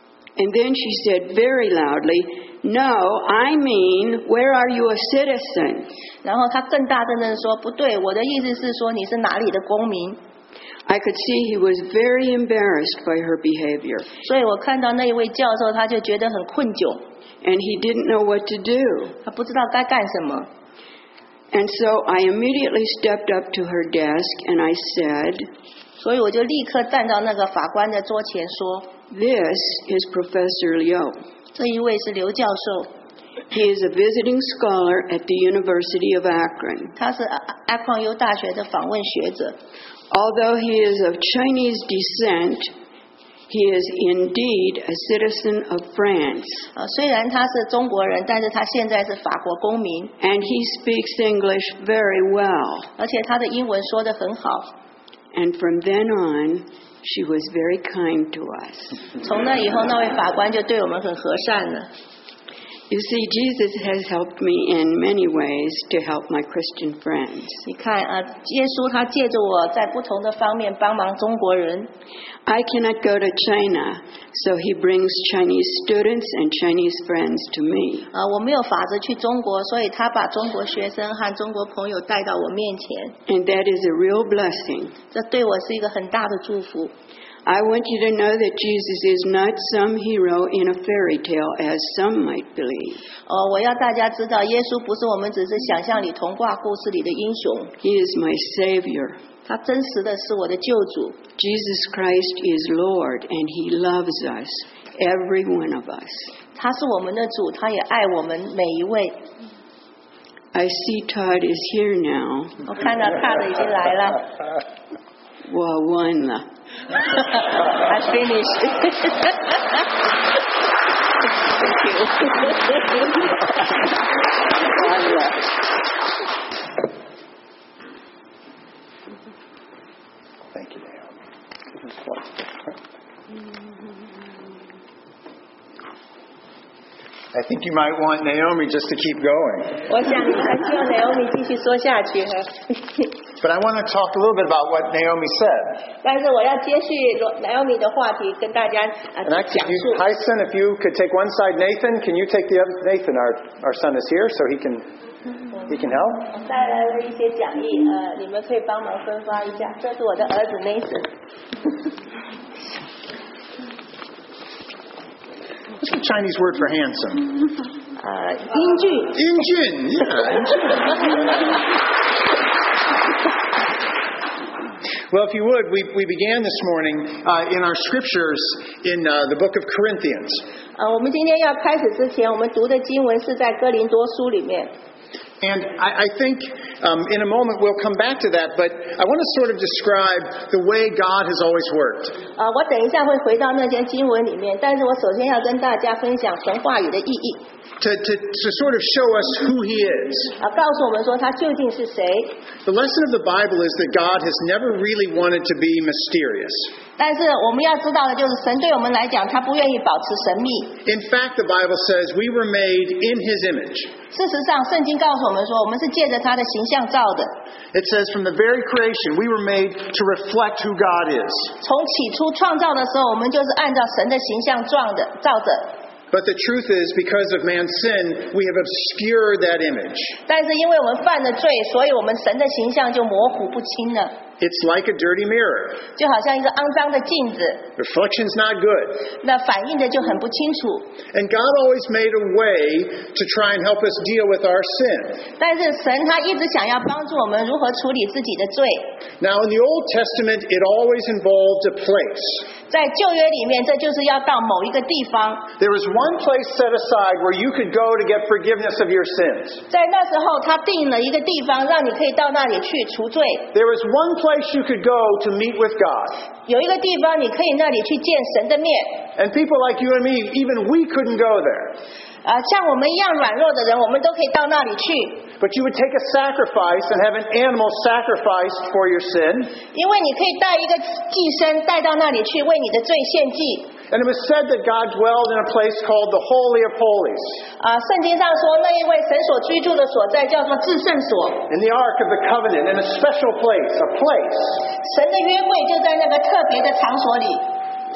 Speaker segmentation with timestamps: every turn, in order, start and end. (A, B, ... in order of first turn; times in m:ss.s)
0:00.4-0:05.9 A
0:06.2-0:10.2 B
0:10.9-0:14.1 A
0:14.2-0:17.0 B
0:17.4-0:19.2 A
0:19.2-0:20.5 B
0:21.5-0:25.5 A
0:26.0-0:28.9 B
0:29.1-0:31.2 A
0:31.6-0:32.9 B
0:33.5-0:36.9 A
0:37.0-0:39.6 B
0:40.1-0:42.7 A
0:43.5-0:46.7 A
0:46.8-0:50.1 B
0:50.2-0:52.9 A
0:53.0-0:54.7 B
0:55.3-0:59.0 A
0:59.2-1:01.9 B
1:02.9-1:07.6 A
1:07.7-1:11.9 B
1:12.5-1:18.1 A
1:18.1-1:23.2 B
1:23.3-1:25.0 A
1:25.1-1:26.9 B
1:27.4-1:33.0 A
1:33.3-1:37.7 B
1:37.8-1:39.2 A
1:39.5-1:41.2 B
1:41.4-1:46.3 A
1:46.6-1:49.2 B
1:50.5-1:52.6 A
1:52.7-1:54.3 B
1:55.5-1:56.4 A
1:57.2-1:59.5 B
2:01.6-2:02.8 B
2:10.5-2:11.1 C
2:11.8-2:12.4 C
2:17.3-2:19.8 C
2:19.9-2:22.8 B
2:23.4-2:25.8 C
2:26.0-2:30.0 B
2:29.2-2:34.9 C
2:35.7-2:36.3 C
2:36.3-2:41.1 B
2:45.8-2:47.3 C
2:48.0-2:49.2 B
2:49.1-2:51.2 C
2:55.1-3:00.4 C
3:00.8-3:04.7 B
3:05.4-3:12.2 C
3:12.4-3:17.4 B
3:17.8-3:20.4 C
3:20.4-3:22.3 B
3:22.6-3:26.7 C
3:27.0-3:30.8 B
3:30.8-3:33.9 C
3:34.1-3:37.3 B
3:37.7-3:41.6 C
3:41.6-3:45.8 B
3:46.1-3:50.2 C
3:50.3-3:54.2 B
3:54.4-3:55.8 C
3:56.0-3:57.7 B
3:57.8-3:59.0 C
3:59.2-4:00.9 B
4:01.1-4:05.2 C
4:05.4-4:08.9 B
4:09.2-4:12.5 C
4:12.7-4:15.5 B
4:15.6-4:19.6 C
4:19.7-4:23.5 B
4:23.5-4:26.2 C
4:26.5-4:29.1 B
4:29.2-4:31.8 C
4:32.2-4:35.3 B
4:35.4-4:39.6 C
4:39.7-4:43.8 B
4:43.9-4:47.4 C
4:47.6-4:51.5 B
4:51.5-4:54.6 C
4:54.8-4:57.5 B